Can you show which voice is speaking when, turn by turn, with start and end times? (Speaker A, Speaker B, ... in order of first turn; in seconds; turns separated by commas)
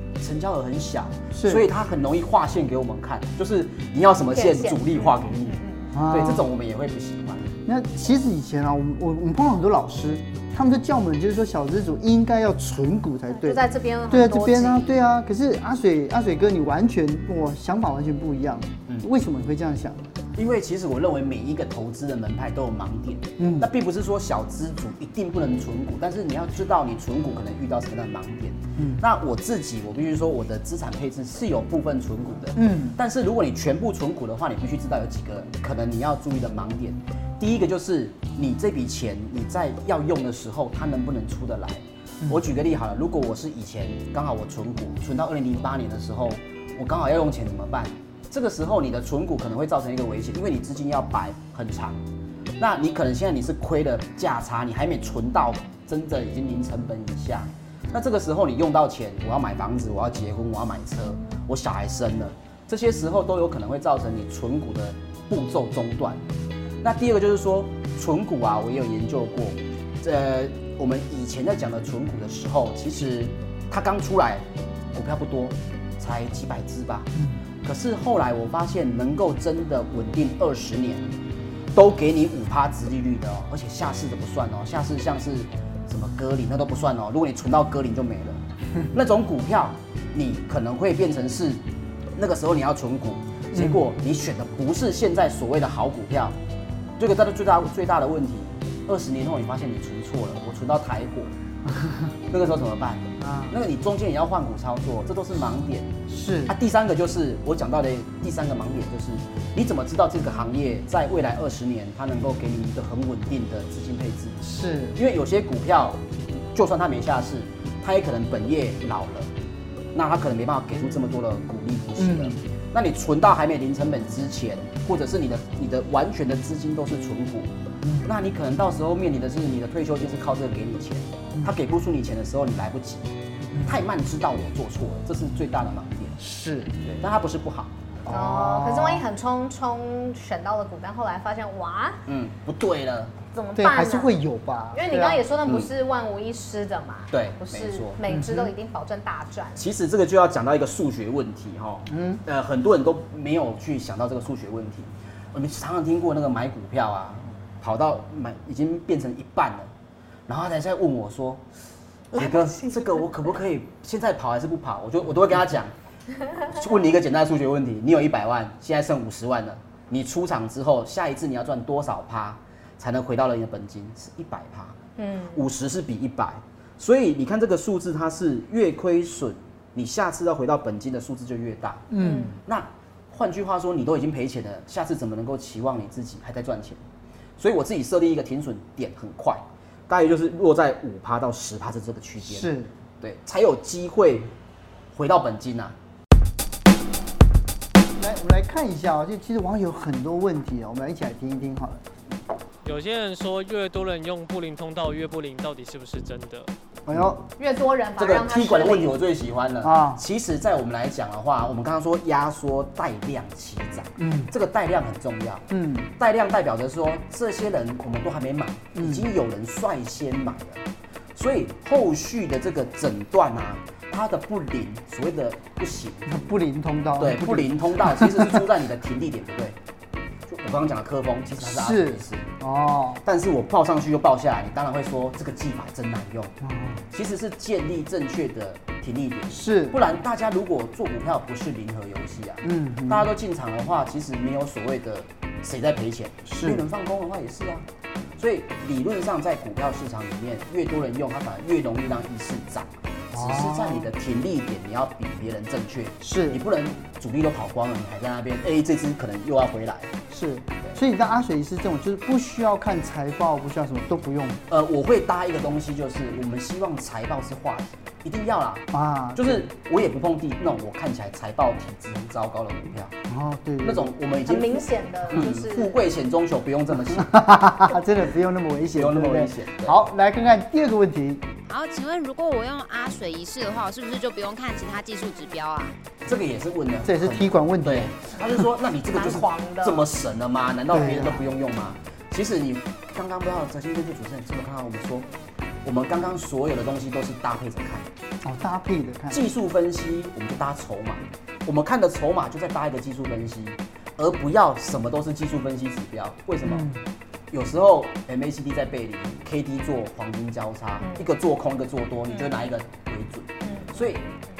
Speaker A: 0.2-7.5, Speaker B: 1.3-1.6, Speaker C: 4.3-5.9, Speaker B: 5.9-6.5, Speaker B: 7.6-20.1, Speaker C: 13.3-15.0, Speaker A: 20.3-52.0, Speaker B: 23.4-23.7, Speaker B: 28.8-29.0, Speaker B: 32.5-33.0, Speaker A: 52.6-66.2, Speaker A: 66.8-77.1, Speaker A: 77.6-81.1, Speaker A: 81.7-88.4, Speaker A: 88.9-91.6, Speaker A: 92.2-96.3, Speaker B: 93.5-93.8, Speaker A: 97.0-101.3, Speaker B: 101.7-102.1, Speaker A: 102.3-105.9, Speaker B: 103.2-103.5, Speaker B: 106.1-106.5, Speaker A: 106.5-119.3, Speaker B: 114.4-115.0, Speaker A: 119.9-127.5, Speaker B: 122.0-122.4, Speaker B: 127.8-128.1, Speaker A: 128.0-133.1, Speaker B: 133.5-133.8, Speaker A: 133.6-136.2, Speaker B: 136.2-136.7, Speaker A: 136.8-137.7, Speaker B: 138.1-139.0, Speaker C: 138.1-142.0, Speaker A: 142.1-143.1, Speaker C: 143.3-144.2, Speaker B: 143.6-145.2, Speaker C: 144.7-149.6, Speaker A: 145.4-145.7, Speaker A: 147.1-148.0, Speaker B: 148.1-148.5, Speaker A: 149.6-159.7, Speaker B: 151.9-152.2, Speaker A: 160.3-161.4, Speaker A: 162.1-165.7, Speaker C: 162.1-162.9, Speaker A: 166.4-174.8, Speaker C: 175.0-175.4, Speaker A: 175.3-181.9, Speaker B: 181.9-182.4, Speaker C: 182.0-182.3, Speaker A: 182.4-186.8, Speaker A: 187.4-194.3, Speaker B: 192.2-192.7, Speaker A: 194.9-195.7, Speaker B: 198.0-201.8, Speaker D: 202.6-206.5, Speaker B: 206.8-207.2, Speaker C: 207.4-208.9, Speaker A: 208.0-220.6, Speaker B: 209.6-210.0, Speaker B: 214.0-214.3, Speaker B: 215.5-215.9, Speaker B: 218.7-219.1, Speaker A: 221.1-226.1, Speaker B: 226.1-228.4, Speaker A: 227.0-229.6, Speaker A: 230.3-232.3, Speaker B: 231.4-233.0, Speaker A: 233.0-236.3, Speaker B: 236.4-236.8, Speaker A: 236.9-247.7, Speaker B: 239.3-239.8, Speaker B: 242.4-243.1, Speaker B: 246.2-246.6, Speaker A: 248.2-259.9, Speaker B: 253.1-253.9, Speaker B: 256.0-256.4, Speaker B: 260.1-264.4, Speaker A: 264.5-272.9, Speaker B: 268.7-269.4, Speaker B: 273.1-273.9, Speaker A: 273.6-277.2, Speaker C: 274.2-275.8, Speaker B: 276.9-281.2, Speaker A: 278.7-279.8, Speaker E: 281.4-285.8, Speaker A: 286.0-295.1, Speaker B: 286.8-288.1, Speaker C: 288.9-289.9, Speaker B: 290.7-291.2, Speaker A: 295.6-297.9, Speaker B: 298.2-299.2, Speaker A: 299.1-306.7, Speaker B: 306.4-306.8, Speaker A: 307.3-314.1, Speaker C: 310.8-311.1, Speaker C: 313.4-313.9